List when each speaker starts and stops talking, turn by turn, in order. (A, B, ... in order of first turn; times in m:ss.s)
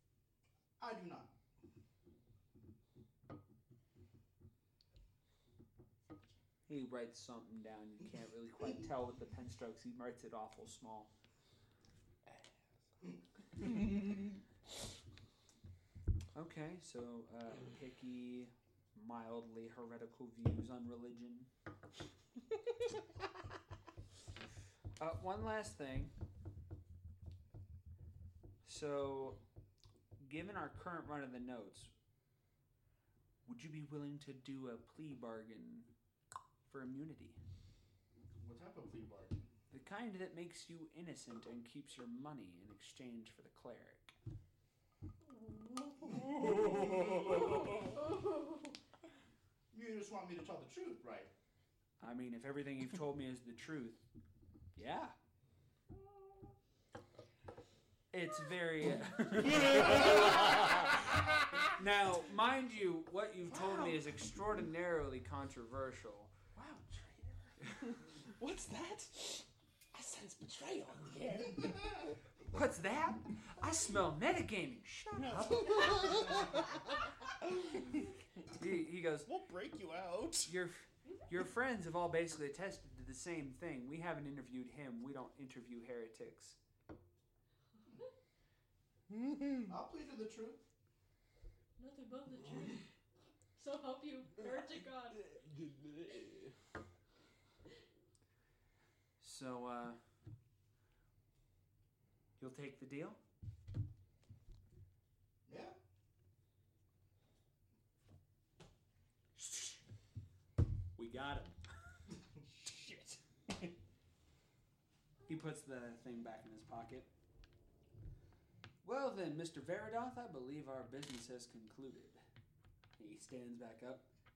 0:00.8-0:01.3 A
0:06.7-0:11.1 B
0:16.3-0:21.5 B
0:25.0-0:26.1 B
0:28.6-0:29.4 B
0:30.2-0:31.9 B
0:33.4-0:35.9 B
0:36.6-0:37.4 B
0:38.4-0:39.4 A
0:39.7-0:44.1 B
0:46.1-0:47.6 C
0:46.3-0:47.6 B
0:46.6-0:47.7 A
0:48.0-0:48.7 D
0:49.7-0:51.3 A
0:52.0-0:54.0 B
0:54.7-0:55.2 B
0:58.1-1:01.2 B
0:59.4-1:00.7 C
1:01.7-1:06.3 B
1:03.5-1:04.0 E
1:06.5-1:12.0 E
1:12.5-1:16.6 B
1:15.2-1:15.8 C
1:18.4-1:19.3 B
1:19.2-1:20.5 C
1:20.4-1:26.6 B
1:29.6-1:30.6 A
1:31.8-1:32.9 D
1:33.6-1:35.2 D
1:34.5-1:36.6 E
1:39.2-1:40.0 B
1:42.4-1:43.2 B
1:45.5-1:45.8 A
1:49.4-1:49.8 B
1:51.0-1:51.6 B
1:52.5-1:53.7 C
1:55.3-1:57.1 B
1:58.8-2:02.2 B
2:03.0-2:04.1 B